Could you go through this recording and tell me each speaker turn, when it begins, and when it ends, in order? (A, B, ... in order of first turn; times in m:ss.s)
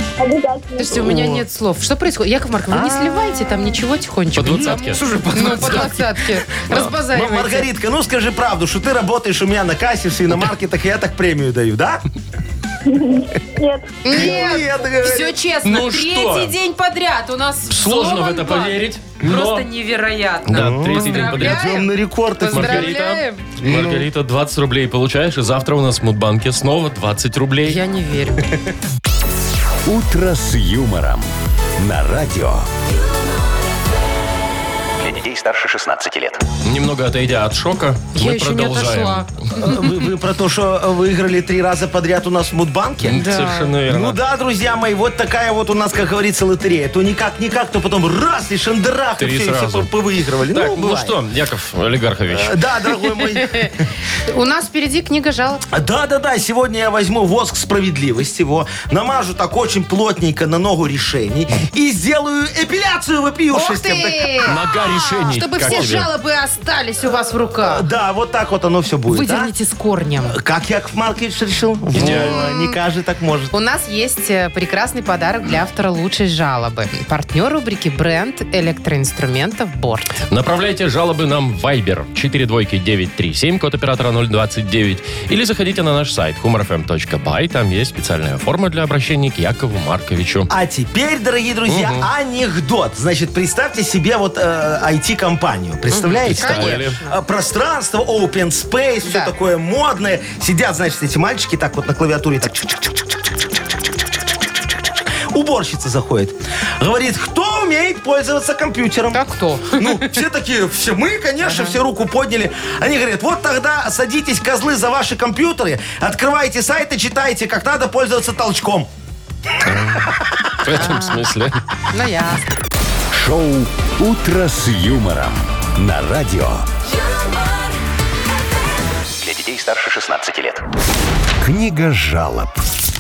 0:00.2-0:01.1 A
0:00.8-0:07.7 B
0:00.9-0:01.4 C
0:02.7-0:03.3 C
0:04.4-0:05.9 D
0:04.5-0:12.0 C
0:12.8-0:14.6 A
0:14.0-0:23.4 B
0:14.1-0:15.4 C
0:15.6-0:16.6 D
0:17.7-0:19.7 D
0:20.5-0:21.9 D
0:20.5-0:22.9 C
0:22.5-0:27.8 D
0:23.6-0:24.1 C
0:27.6-0:28.4 B
0:29.9-0:32.7 E
0:35.0-0:36.4 F
0:36.6-0:39.5 D
0:38.2-0:39.8 B
0:39.6-0:43.2 C
0:43.0-0:44.2 D
0:43.1-0:43.7 B
0:43.8-0:51.2 C
0:49.2-0:49.9 D
0:50.5-0:52.6 D
0:52.3-0:53.9 C
0:53.2-0:53.7 B
0:54.2-0:55.6 B
0:55.7-1:04.6 C
1:03.5-1:07.9 B
1:04.5-1:06.1 D
1:05.6-1:06.0 C
1:07.6-1:09.5 C
1:09.1-1:10.4 B
1:10.3-1:13.5 C
1:11.9-1:12.4 D
1:12.0-1:12.8 B
1:13.5-1:20.2 B
1:20.3-1:30.5 D
1:30.5-1:58.9 C
1:31.7-1:32.1 D
1:35.9-1:37.2 B
1:36.2-1:37.0 D
1:39.0-1:39.3 B
1:49.1-1:50.2 B
1:51.4-1:51.8 B
1:59.6-2:01.6 D
2:00.8-2:01.2 B
2:01.9-2:02.4 B
2:03.1-2:06.7 E
2:09.2-2:10.6 F
2:11.4-2:12.6 E